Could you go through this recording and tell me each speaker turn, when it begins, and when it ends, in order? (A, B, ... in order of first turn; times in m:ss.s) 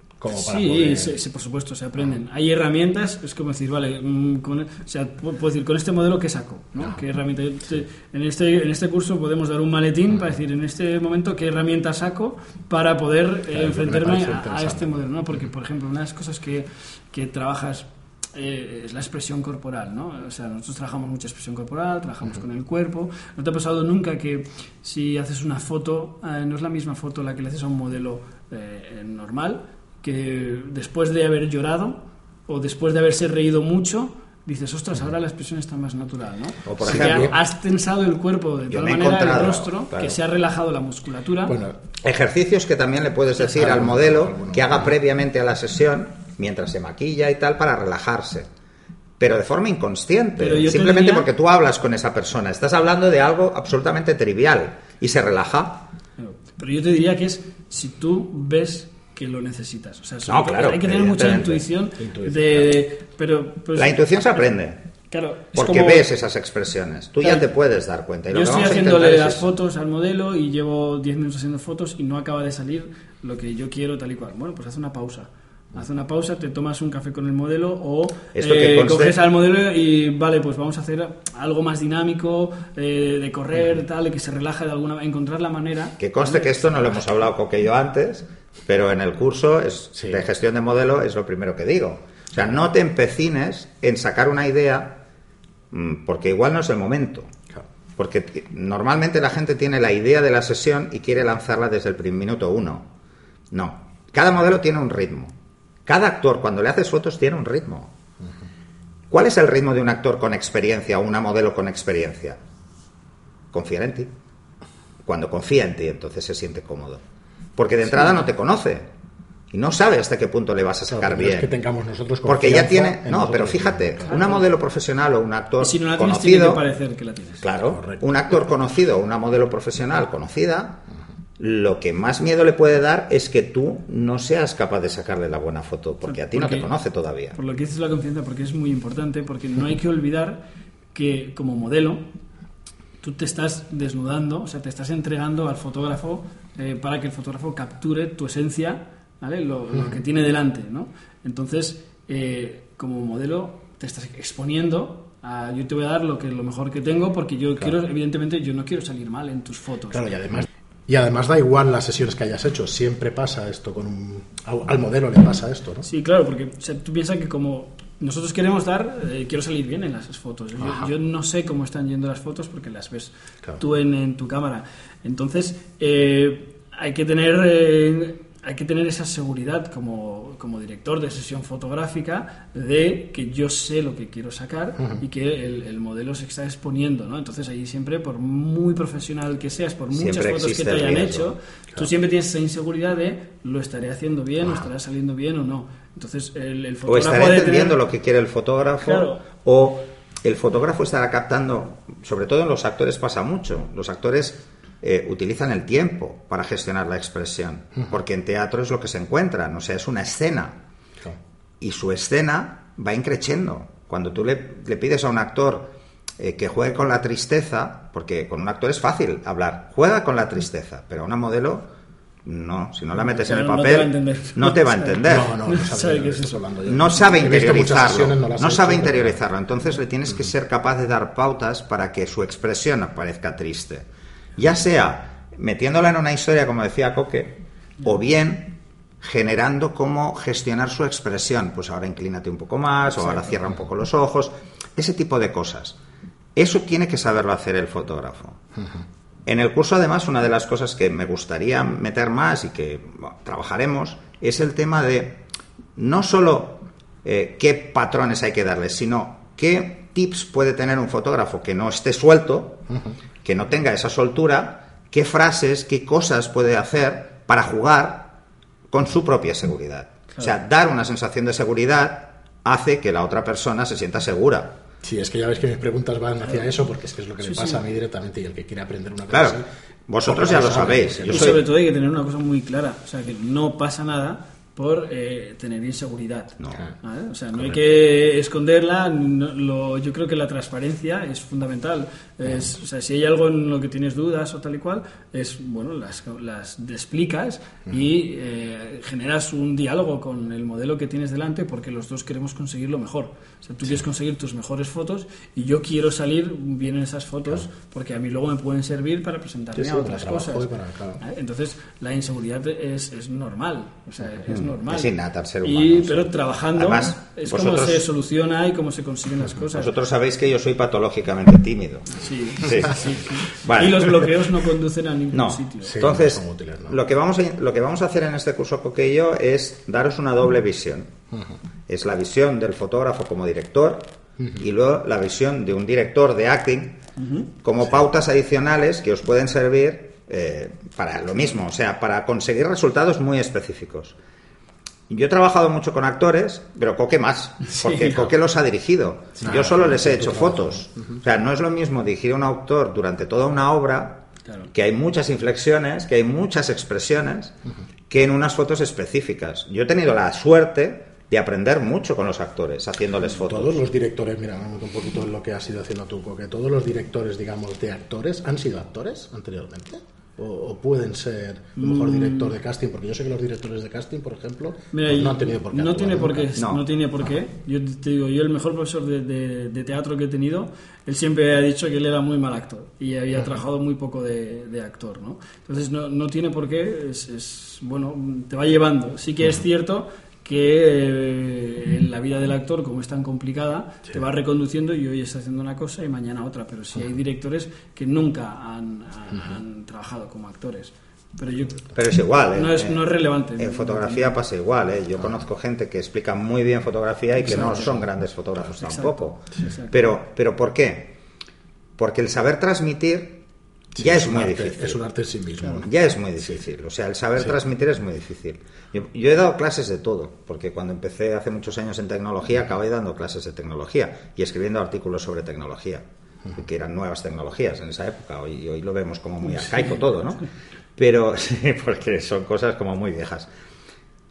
0:00.2-0:01.1 A
0:00.3-0:41.5 B
0:13.5-0:14.9 A
0:36.6-0:37.3 C
0:36.8-0:37.3 A
0:38.7-0:40.2 C
0:41.5-0:41.8 A
0:42.0-0:48.5 C
0:43.5-0:44.9 A
0:49.2-0:55.8 C
0:50.4-0:51.3 B
0:56.2-1:04.4 B
1:00.2-1:01.6 C
1:02.0-1:02.6 A
1:03.7-1:04.8 C
1:05.1-1:06.1 B
1:05.5-1:09.4 C
1:07.2-1:07.5 B
1:08.3-1:26.9 B
1:18.3-1:19.2 C
1:26.0-1:35.0 C
1:30.0-1:30.2 A
1:35.7-1:37.3 C
1:38.0-1:42.9 C
1:43.5-1:45.3 C
1:45.8-1:47.9 C
1:49.1-1:52.4 C
1:53.5-1:54.1 C
1:55.0-1:57.0 C
1:57.6-1:58.9 C
1:59.5-2:01.5 C
2:00.9-2:04.2 A
2:02.2-2:06.6 C
2:04.1-2:04.4 B
2:05.6-2:07.5 B
2:07.4-2:10.8 C
2:07.7-2:08.0 A
2:11.4-2:17.4 C
2:16.1-2:16.7 B
2:17.3-2:20.4 B
2:20.9-2:22.0 B
2:23.0-2:40.0 B
2:39.9-2:45.9 A
2:45.8-3:17.8 B
2:50.6-2:50.9 A
3:09.9-3:11.3 C
3:16.8-3:30.6 C
3:18.8-3:19.2 B
3:31.6-3:41.6 C
3:42.2-3:45.3 C
3:42.9-3:46.4 B
3:45.0-3:49.2 A
3:46.6-3:53.8 C
3:54.4-4:05.8 C
4:06.3-4:08.4 C
4:09.2-4:15.2 C
4:15.8-4:22.6 C
4:22.7-4:22.9 A
4:23.2-4:28.1 C
4:28.7-4:34.6 C
4:34.8-4:39.4 A
4:37.2-4:37.6 B
4:39.1-4:41.4 C
4:40.0-4:41.4 A
4:41.1-5:10.5 B
5:09.6-5:11.0 A
5:11.0-5:19.7 B
5:14.2-5:17.8 C
5:19.5-5:24.1 C
5:21.9-5:25.8 B
5:25.1-5:30.9 C
5:25.6-5:26.8 A
5:31.7-5:33.9 C
5:34.4-5:36.8 C
5:37.0-5:37.3 B
5:37.4-5:44.0 C
5:44.9-5:57.3 C
5:47.4-5:48.0 B
5:49.2-5:50.6 A
5:57.9-6:03.6 C
6:03.2-6:16.3 A
6:11.6-6:12.4 B
6:14.7-6:41.7 B
6:16.4-6:16.6 C
6:41.7-6:42.8 C
6:42.3-6:44.1 B
6:43.4-6:50.9 C
6:47.2-6:47.8 B
6:48.6-6:49.8 B
6:51.8-6:53.2 C
6:53.7-6:55.7 A
6:53.8-6:54.8 C
6:55.6-7:10.2 C
7:10.8-7:13.3 C